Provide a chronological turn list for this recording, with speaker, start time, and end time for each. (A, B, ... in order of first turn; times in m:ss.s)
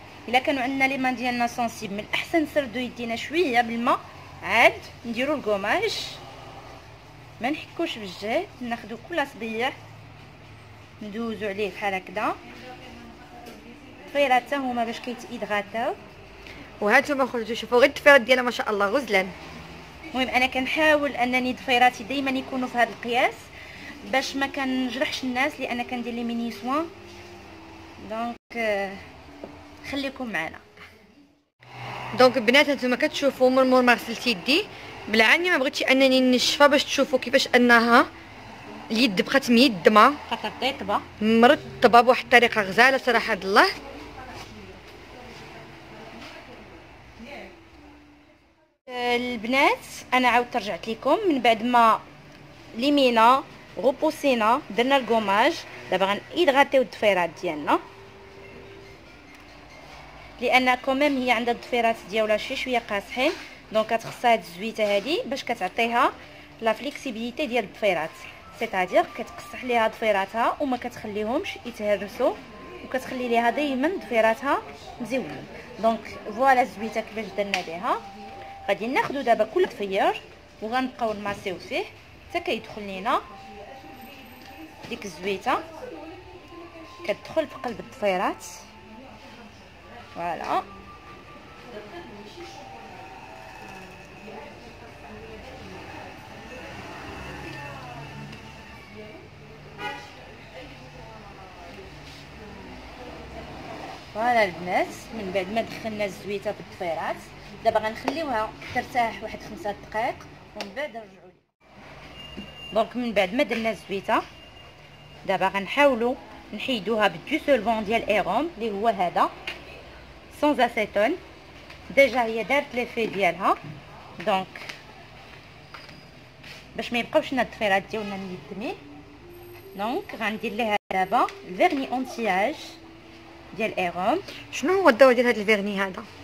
0:00.3-0:06.2 A
0:07.4-0:09.7 A
0:11.0-0:12.4 A
0:14.1-0:16.0 A
0:16.8-0:19.3 B
0:20.1-0:23.4 A
0:24.0-0:26.9 A
0:28.0-0:29.0 A
0:29.8-0:30.6 A
0:32.1-0:38.1 B
0:38.9-0:40.2 B
0:40.3-0:41.1 A
0:41.2-0:43.7 B
0:48.9-0:52.0 A
0:52.7-0:57.8 A
1:00.4-1:18.0 A
1:18.6-1:23.2 A
1:24.9-1:25.6 A
1:27.0-1:28.6 A
1:30.2-1:30.6 A
1:44.1-1:51.4 A
1:52.7-1:54.2 A
1:55.2-1:59.3 A
2:00.3-2:01.2 A
2:01.9-2:03.6 A
2:04.2-2:04.7 A
2:06.7-2:08.8 A
2:09.7-2:12.8 A
2:13.5-2:14.2 A
2:14.5-2:16.1 B